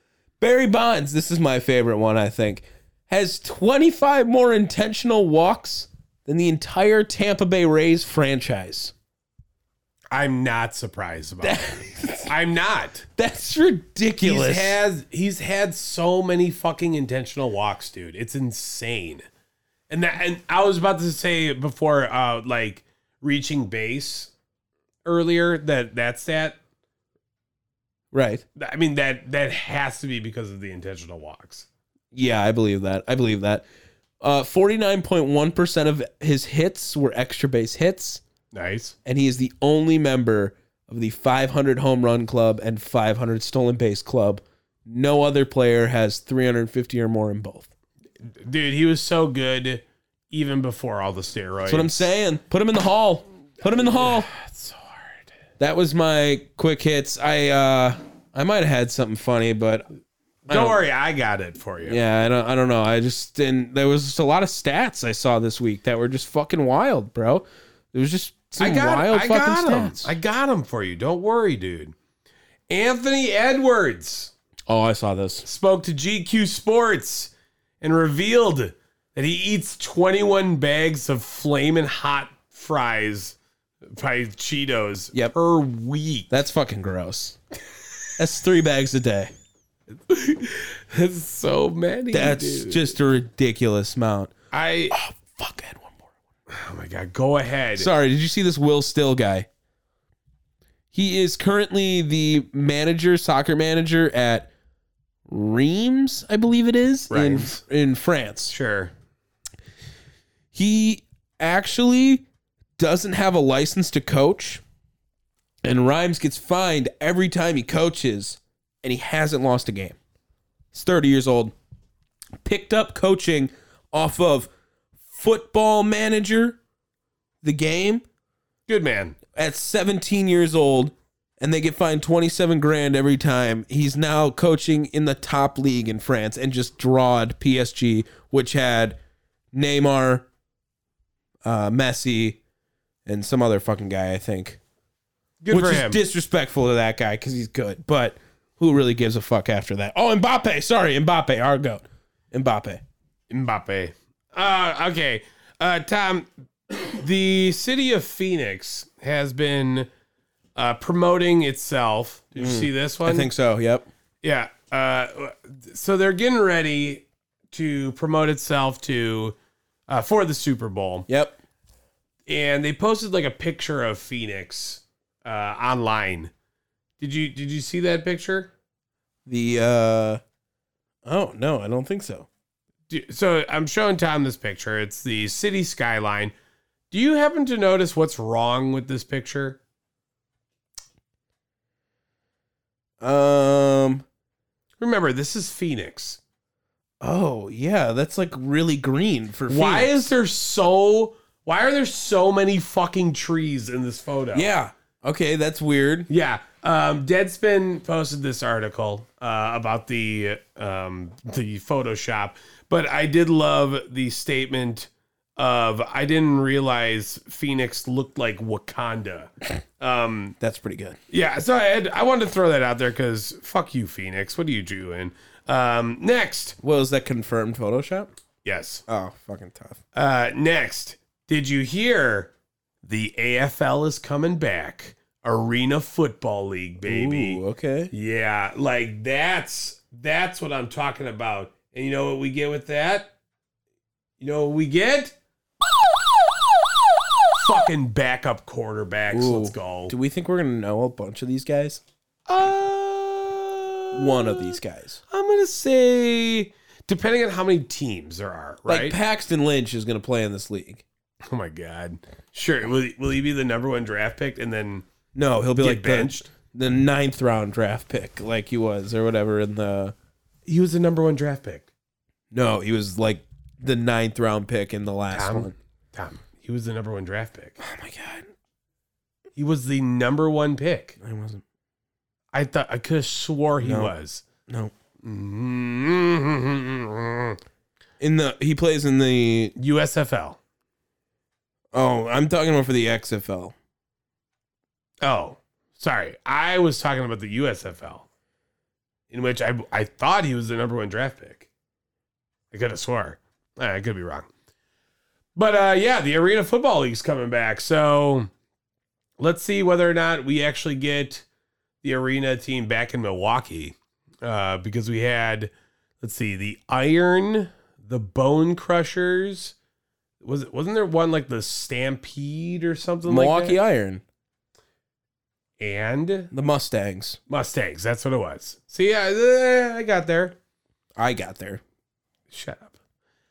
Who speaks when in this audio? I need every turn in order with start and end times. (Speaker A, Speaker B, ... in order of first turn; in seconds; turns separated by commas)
Speaker A: 0.4-8.9, Speaker B: 10.1-13.0, Speaker A: 11.4-12.3, Speaker A: 13.2-14.8, Speaker B: 14.2-19.2, Speaker B: 19.9-24.3, Speaker B: 25.0-26.6, Speaker A: 28.1-28.4, Speaker B: 28.6-31.7, Speaker A: 32.1-33.6, Speaker A: 34.2-38.2, Speaker B: 38.5-38.9, Speaker A: 39.0-47.7, Speaker B: 48.2-52.1, Speaker A: 51.6-54.3, Speaker B: 53.8-55.2, Speaker A: 55.6-59.9, Speaker B: 60.5-62.0, Speaker A: 60.5-60.8, Speaker A: 61.9-70.1, Speaker B: 68.6-71.9, Speaker B: 72.7-74.3, Speaker A: 74.7-75.5, Speaker B: 75.4-86.4, Speaker A: 86.3-87.4, Speaker A: 88.2-89.3, Speaker B: 89.9-93.0, Speaker A: 92.1-94.3, Speaker B: 94.5-95.0, Speaker A: 94.9-96.0, Speaker B: 96.5-97.9, Speaker A: 97.8-99.5, Speaker A: 100.9-104.5, Speaker A: 105.3-108.5, Speaker B: 107.1-107.6, Speaker B: 108.5-108.9, Speaker A: 110.5-112.2, Speaker A: 112.8-114.6, Speaker A: 115.6-120.0, Speaker A: 120.7-121.5, Speaker A: 122.4-124.5, Speaker A: 125.1-126.6, Speaker A: 127.4-128.0, Speaker B: 128.7-129.2, Speaker A: 129.3-139.0, Speaker A: 139.5-140.2, Speaker A: 141.4-142.4, Speaker A: 143.1-144.6, Speaker B: 145.4-146.0, Speaker A: 145.5-152.8, Speaker B: 153.3-159.9, Speaker B: 160.6-163.3, Speaker A: 162.3-163.9, Speaker B: 164.2-169.4, Speaker B: 169.9-171.1, Speaker A: 171.1-171.3, Speaker B: 172.2-176.3, Speaker B: 177.0-178.5, Speaker A: 179.2-180.2, Speaker A: 181.0-182.3, Speaker B: 182.9-186.3, Speaker B: 186.9-189.6, Speaker A: 193.0-194.0, Speaker B: 194.8-196.2, Speaker A: 197.0-200.1, Speaker B: 199.5-204.5, Speaker A: 204.3-206.1, Speaker B: 206.1-220.4, Speaker A: 220.4-221.0, Speaker B: 221.1-226.6, Speaker A: 226.6-228.1, Speaker B: 228.4-228.8, Speaker A: 228.9-229.8, Speaker B: 229.9-237.4, Speaker A: 236.8-237.9, Speaker B: 237.9-243.1, Speaker B: 244.2-245.1, Speaker B: 247.3-249.9, Speaker A: 249.1-251.8, Speaker B: 252.3-254.6, Speaker A: 253.9-255.0, Speaker B: 255.1-259.0, Speaker A: 258.7-260.8, Speaker B: 261.2-264.9, Speaker A: 265.1-269.9, Speaker B: 265.6-266.3, Speaker B: 270.4-271.6, Speaker A: 272.3-275.6, Speaker B: 275.1-277.6, Speaker A: 277.6-278.3, Speaker B: 279.4-280.9, Speaker A: 281.0-281.4, Speaker B: 282.3-284.2, Speaker A: 283.6-283.9, Speaker A: 284.5-284.7, Speaker B: 285.0-287.4, Speaker A: 288.0-289.5, Speaker B: 289.6-290.4, Speaker A: 291.7-293.5, Speaker B: 295.0-298.1, Speaker B: 299.1-301.5, Speaker B: 302.5-304.3, Speaker B: 305.3-308.3, Speaker B: 309.2-311.2, Speaker B: 311.8-319.5, Speaker B: 320.2-323.6, Speaker A: 323.1-324.0, Speaker B: 325.6-326.3, Speaker A: 326.3-327.2, Speaker B: 327.3-330.4, Speaker A: 331.0-331.6, Speaker B: 332.3-332.7